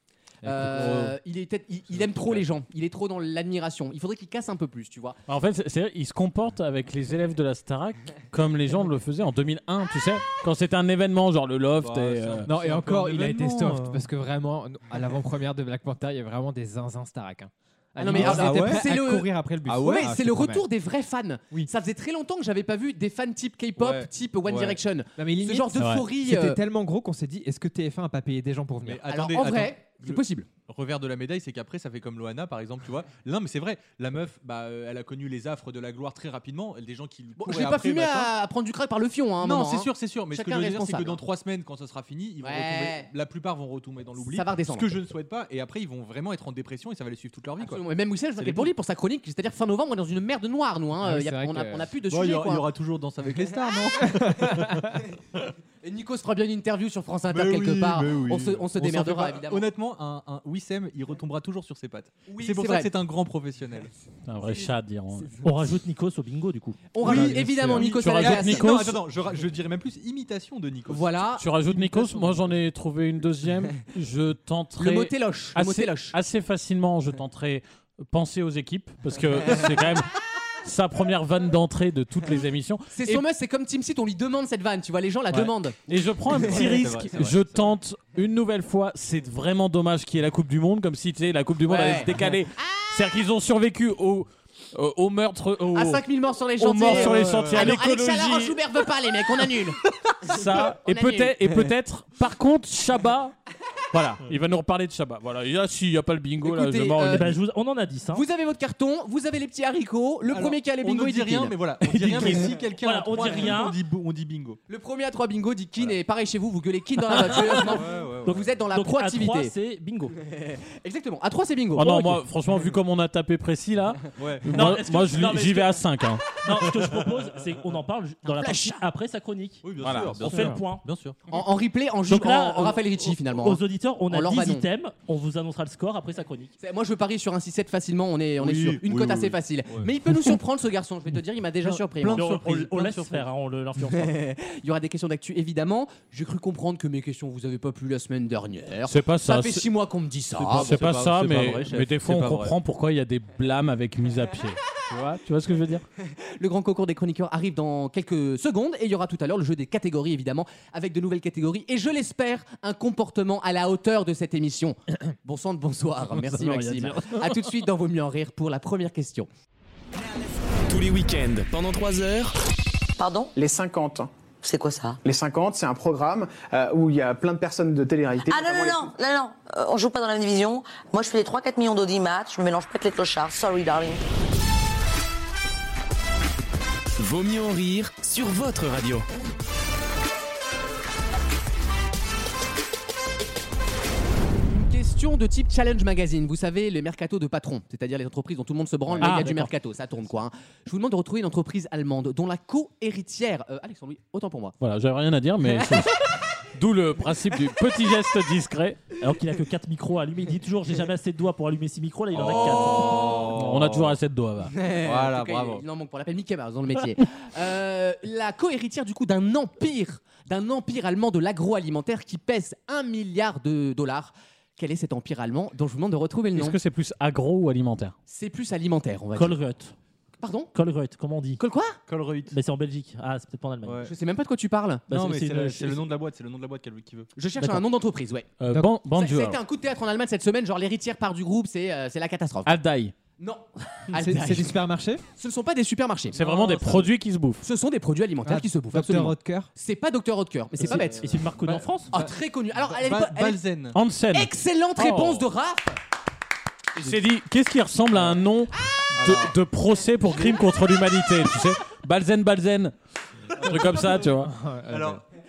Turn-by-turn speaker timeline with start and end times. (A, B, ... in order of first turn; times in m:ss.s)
0:00.4-0:01.0 A
0:00.4-0:05.2 B
0:00.8-0:01.0 C
0:02.0-0:02.5 C
0:05.3-0:12.5 D
0:11.8-0:14.0 C
0:12.5-0:20.6 A
0:18.0-0:26.6 B
0:18.1-0:18.9 C
0:19.7-0:20.2 C
0:23.8-0:24.8 C
0:25.2-0:29.0 A
0:28.8-0:38.3 C
0:29.1-0:30.5 B
0:37.4-0:41.2 B
0:39.4-0:47.8 C
0:42.4-0:43.1 B
0:44.2-0:45.0 B
0:47.6-0:52.6 B
0:48.4-0:48.7 C
0:51.0-0:51.9 A
0:52.1-0:55.0 C
0:54.3-0:54.8 A
0:55.8-0:59.7 B
0:57.3-1:03.9 C
1:02.3-1:02.9 B
1:04.3-1:05.4 D
1:05.4-1:07.7 E
1:06.9-1:08.8 B
1:07.0-1:11.2 C
1:07.8-1:09.0 D
1:10.9-1:12.3 B
1:11.4-1:20.1 D
1:14.8-1:16.2 B
1:20.6-1:23.2 D
1:22.9-1:26.6 B
1:25.3-1:36.0 D
1:26.3-1:27.7 C
1:31.7-1:32.9 B
1:35.7-1:41.7 B
1:36.6-1:38.6 D
1:36.9-1:37.8 C
1:40.1-1:40.4 C
1:40.3-1:43.3 D
1:43.9-1:47.4 D
1:46.4-1:47.4 B
1:47.1-1:48.2 E
1:48.1-1:51.6 B
1:50.3-1:54.6 C
1:51.9-1:52.5 D
1:52.2-1:53.8 E
1:54.7-1:59.5 B
1:57.5-1:58.5 C
1:58.7-2:00.2 E
2:00.5-2:01.9 B
2:01.8-2:06.4 D
2:04.2-2:05.8 C
2:04.6-2:05.5 E
2:06.4-2:10.8 E
2:06.4-2:07.2 C
2:08.2-2:08.8 B
2:09.6-2:11.2 C
2:09.8-2:10.7 D
2:11.3-2:14.6 B
2:12.1-2:16.5 E
2:16.6-2:22.2 B
2:18.4-2:19.9 C
2:21.6-2:23.3 C
2:22.1-2:24.1 E
2:23.9-2:30.8 B
2:28.9-2:29.7 D
2:30.4-2:32.6 C
2:30.5-2:35.8 D
2:36.1-2:49.3 B
2:46.2-2:47.2 E
2:50.7-2:52.4 F
2:53.0-2:53.3 G
2:53.4-2:54.1 H
2:54.4-2:55.0 G
2:55.0-2:58.9 H
2:58.3-3:04.0 G
3:07.0-3:09.1 F
3:14.4-3:24.6 B
3:19.0-3:19.5 D
3:19.0-3:19.4 E
3:24.6-3:26.0 D
3:26.6-3:29.0 D
3:29.0-3:33.3 E
3:32.1-3:34.0 C
3:33.3-3:34.6 D
3:34.5-3:46.6 B
3:34.7-3:35.6 C
3:46.4-3:48.0 D
3:48.1-3:49.4 B
3:49.2-3:49.8 E
3:50.2-3:50.5 B
3:50.5-3:51.4 E
3:51.4-3:51.8 B
3:51.9-3:52.4 C
3:52.3-3:53.8 E
3:53.6-3:53.9 C
3:53.8-3:54.8 B
3:54.9-3:55.8 E
3:54.9-3:57.1 C
3:57.2-3:58.3 B
3:58.4-3:59.4 D
3:58.9-4:02.5 B
4:02.5-4:02.9 D
4:03.2-4:04.6 B
4:03.9-4:05.0 A
4:05.2-4:06.2 B
4:06.2-4:06.9 C
4:06.2-4:07.5 D
4:07.4-4:11.1 B
4:08.2-4:09.5 A
4:10.7-4:10.9 C
4:10.7-4:11.9 E
4:11.9-4:13.4 B
4:11.9-4:13.8 C
4:13.7-4:15.2 D
4:14.1-4:15.8 B
4:16.8-4:22.7 D
4:17.9-4:18.2 C
4:19.0-4:19.4 C
4:23.4-4:24.1 C
4:23.4-4:24.3 D
4:23.4-4:25.0 A
4:24.7-4:25.0 C